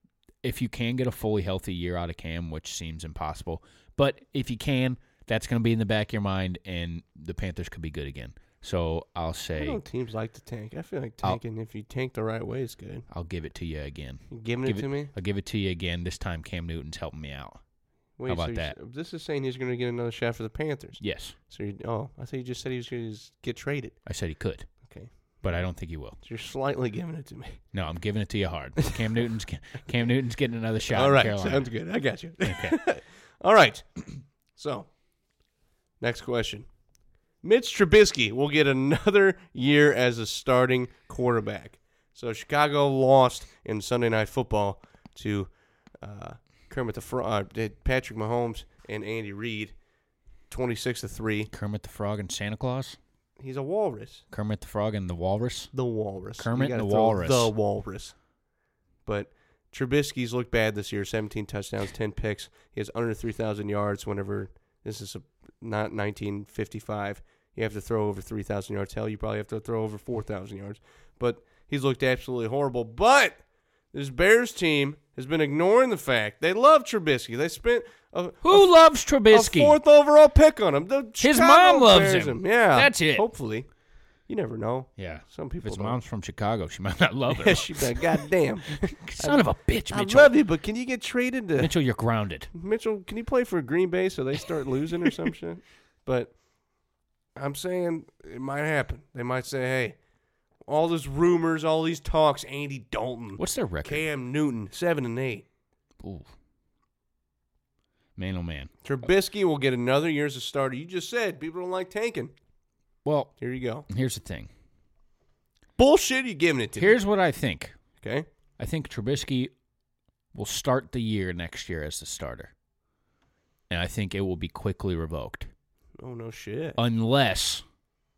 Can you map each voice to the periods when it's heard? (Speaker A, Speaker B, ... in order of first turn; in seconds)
Speaker A: 0.4-9.8, 13.1-17.6, 18.2-18.7, 21.0-21.3, 24.1-24.7, 25.4-26.2, 27.7-31.7, 32.4-32.8, 51.5-53.0, 54.3-55.7, 56.4-57.5, 78.4-79.8, 81.2-83.2, 85.0-88.2, 88.9-90.3, 91.6-92.5, 103.4-104.0, 106.0-106.3, 108.2-108.7, 113.0-113.3, 113.9-114.5, 116.8-117.8, 118.6-119.5, 120.3-122.5, 123.7-125.5, 126.8-127.6
Speaker B: 9.6-13.0, 14.3-15.1, 18.2-24.0, 24.8-25.5, 26.2-27.6, 30.9-34.9, 36.0-36.7, 37.4-49.7, 50.5-51.5, 53.4-54.2, 55.7-58.1, 59.0-73.4, 73.9-78.7, 79.2-83.7, 84.3-86.0, 87.3-91.7, 92.5-96.3, 97.3-100.0, 100.7-105.5, 108.8-112.3, 113.4-113.9, 115.8-117.0, 118.0-118.3, 126.0-126.8